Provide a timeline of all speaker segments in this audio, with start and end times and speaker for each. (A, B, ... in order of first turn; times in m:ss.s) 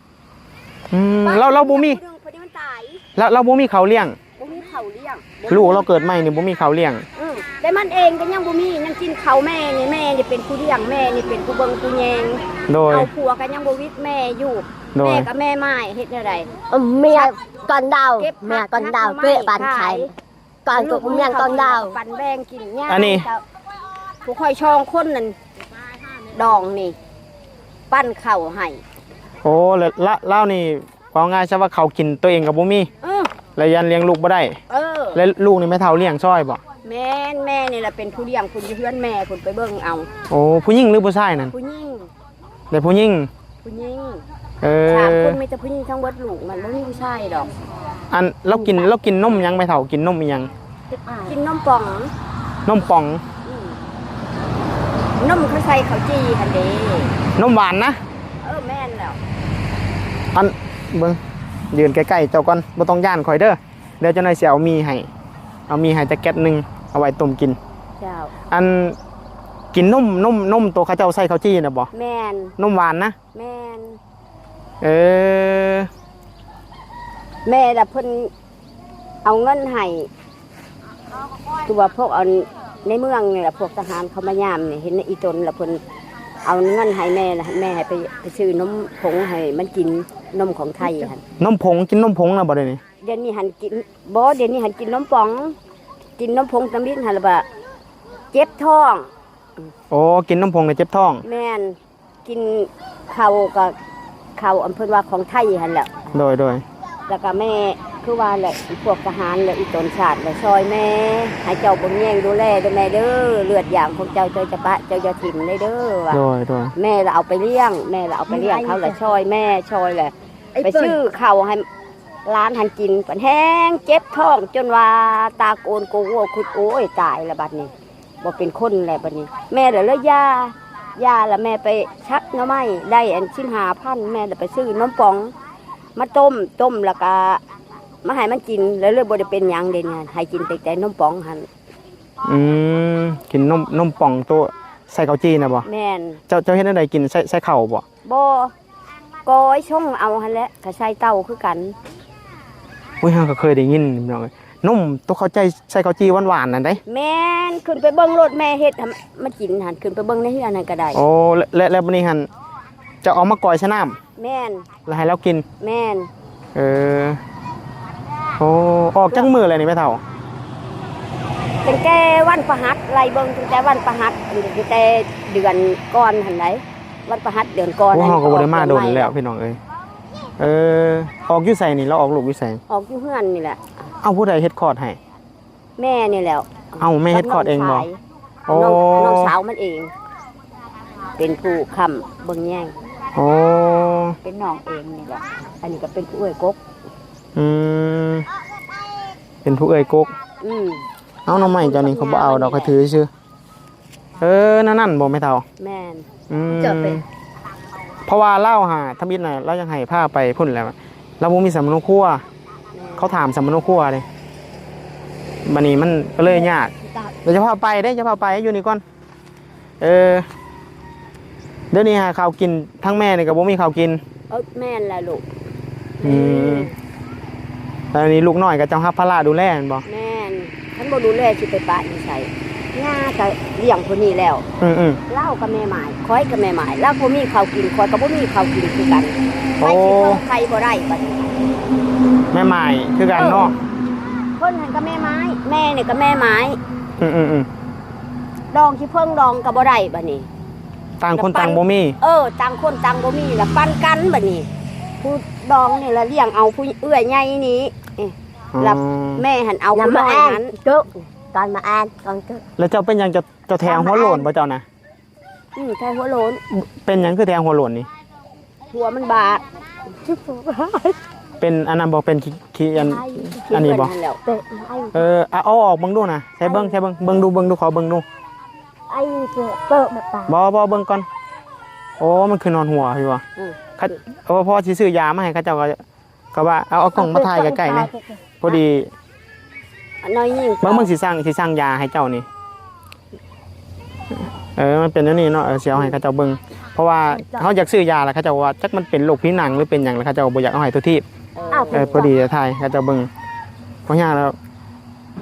0:00.9-0:02.0 A
0:01.2-0:03.0 B
0:03.2-0:04.2 A
0:04.4-0:05.9 B
0:05.5-0:07.0 A
0:07.2-0:16.5 B
0:12.7-0:13.1 A
0:15.0-0:15.3 A
0:16.7-0:20.1 C
0:17.1-0:17.4 B
0:18.2-0:20.1 B
0:20.6-0:22.0 C
0:20.7-0:23.4 B
0:22.9-0:23.3 A
0:24.2-0:25.4 B
0:26.3-0:27.0 B
0:27.9-0:28.8 B
0:29.4-0:32.9 A
0:33.0-0:33.3 B
0:33.6-0:34.6 A
0:34.7-0:35.2 B
0:35.1-0:36.6 A
0:36.8-0:40.1 B
0:40.3-0:41.5 A
0:41.5-0:42.1 B
0:42.7-0:43.3 A
0:43.6-0:44.3 B
0:44.6-0:45.4 A
0:44.9-0:47.5 B
0:48.1-0:50.5 A
0:51.0-0:51.4 C
0:51.2-0:52.1 B
0:52.7-0:53.2 A
0:53.4-0:53.8 B
0:55.2-0:57.2 B
0:57.4-0:58.0 A
0:58.4-0:59.2 B
1:00.3-1:01.2 A
1:01.7-1:05.1 A
1:05.7-1:07.6 A
1:08.0-1:08.3 B
1:08.5-1:09.0 A
1:09.7-1:11.9 A
1:11.9-1:12.6 B
1:12.6-1:13.2 A
1:13.3-1:14.0 B
1:14.8-1:15.9 A
1:17.4-1:18.3 B
1:19.2-1:20.1 B
1:21.6-1:25.8 B
1:26.4-1:31.2 B
1:31.4-1:32.8 A
1:33.0-1:35.6 B
1:36.2-1:37.5 B
1:38.3-1:39.1 B
1:39.9-1:41.2 A
1:41.2-1:43.8 B
1:44.4-1:46.1 B
1:46.1-1:46.6 A
1:47.1-1:56.2 B
1:56.1-1:56.7 A
1:56.8-2:01.7 B
1:58.3-1:59.0 C
2:00.6-2:01.0 C
2:02.2-2:15.3 B
2:16.0-2:17.4 B
2:18.0-2:21.5 B
2:22.2-2:25.7 A
2:25.6-2:26.2 B
2:26.3-2:27.8 A
2:28.0-2:28.5 B
2:29.2-2:31.8 B
2:33.0-2:36.8 A
2:36.9-2:41.0 B
2:40.9-2:42.3 A
2:43.0-2:44.0 A
2:44.2-2:44.7 B
2:44.9-2:45.4 A
2:45.6-2:46.1 B
2:46.6-2:47.2 A
2:48.4-2:50.0 A
2:51.6-2:59.2 B
2:57.9-2:59.6 A
3:00.4-3:02.6 A
3:02.7-3:03.6 B
3:04.0-3:05.0 A
3:05.8-3:09.9 B
3:06.8-3:07.9 A
3:08.5-3:09.3 A
3:11.2-3:12.7 B
3:13.2-3:14.2 A
3:14.2-3:16.6 B
3:17.4-3:18.3 A
3:19.4-3:20.1 A
3:20.4-3:22.8 B
3:21.3-3:23.1 A
3:24.2-3:25.4 A
3:25.6-3:26.1 B
3:26.3-3:27.0 A
3:26.5-3:27.0 C
3:28.1-3:32.2 A
3:32.7-3:33.2 B
3:33.0-3:34.1 A
3:35.4-3:36.7 A
3:37.2-3:38.8 A
3:39.8-3:40.3 A
3:41.7-3:44.0 A
3:44.3-3:45.2 B
3:46.0-3:46.7 B
3:46.0-3:46.7 A
3:47.9-3:49.9 A
3:49.8-3:54.5 B
3:54.6-3:55.0 A
3:55.1-4:01.4 B
3:59.6-4:00.2 A
4:02.3-4:03.6 A
4:03.2-4:03.5 B
4:04.4-4:06.6 B
4:07.0-4:07.5 A
4:08.5-4:10.3 B
4:11.0-4:12.0 A
4:11.1-4:14.5 B
4:15.0-4:20.5 B
4:18.6-4:19.2 A
4:19.7-4:22.4 C
4:22.6-4:24.6 A
4:23.6-4:24.3 C
4:25.6-4:26.4 B
4:26.5-4:27.9 A
4:28.7-4:29.4 B
4:30.0-4:31.0 C
4:31.4-4:33.9 A
4:32.8-4:33.6 C
4:33.5-4:34.2 B
4:34.2-4:35.0 C
4:34.9-4:38.0 A
4:38.9-4:40.3 C
4:40.3-4:41.1 A
4:42.0-4:43.2 A
4:43.8-4:45.8 A
4:46.3-4:47.9 A
4:47.0-4:48.5 C
4:48.4-4:48.9 A
4:50.0-4:50.9 B
4:50.6-4:52.3 A
4:54.6-5:01.0 A
4:57.1-4:57.5 C
5:01.4-5:02.0 B
5:01.5-5:02.1 C
5:01.7-5:03.1 A
5:03.9-5:04.4 A